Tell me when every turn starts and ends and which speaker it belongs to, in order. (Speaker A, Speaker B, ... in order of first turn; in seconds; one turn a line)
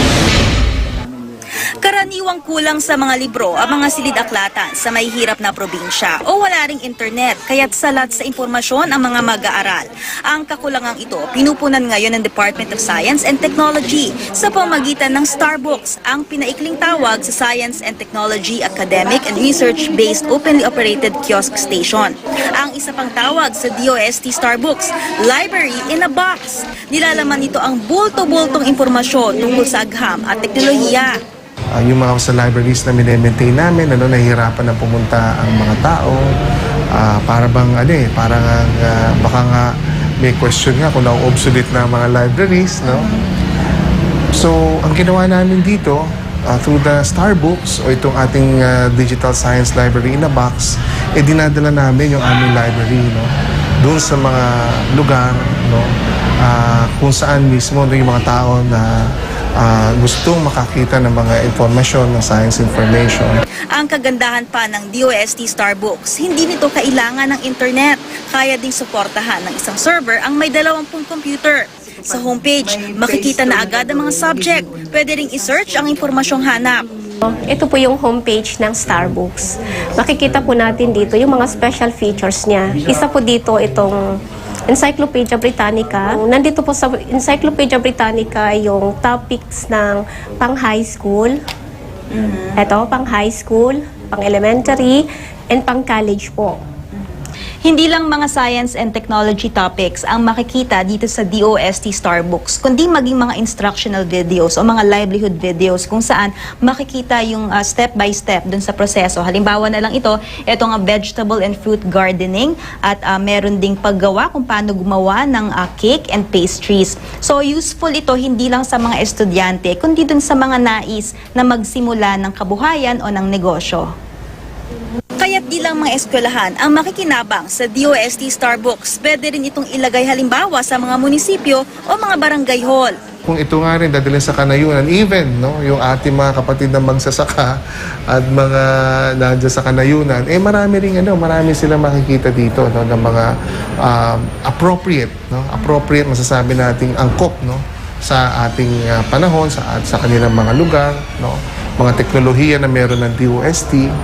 Speaker A: 1.7-31.2
Speaker B: 31.8-36.3
Speaker B: 36.9-43.1
Speaker B: 44.3-53.3
Speaker B: 53.8-59.0
Speaker B: 59.6-63.4
Speaker A: 63.7-76.9
Speaker C: 77.2-84.2
Speaker C: 84.7-91.4
Speaker A: 92.1-92.6
Speaker C: 92.6-96.6
Speaker A: 97.6-123.9
Speaker A: 125.2-132.9
Speaker B: 133.3-153.9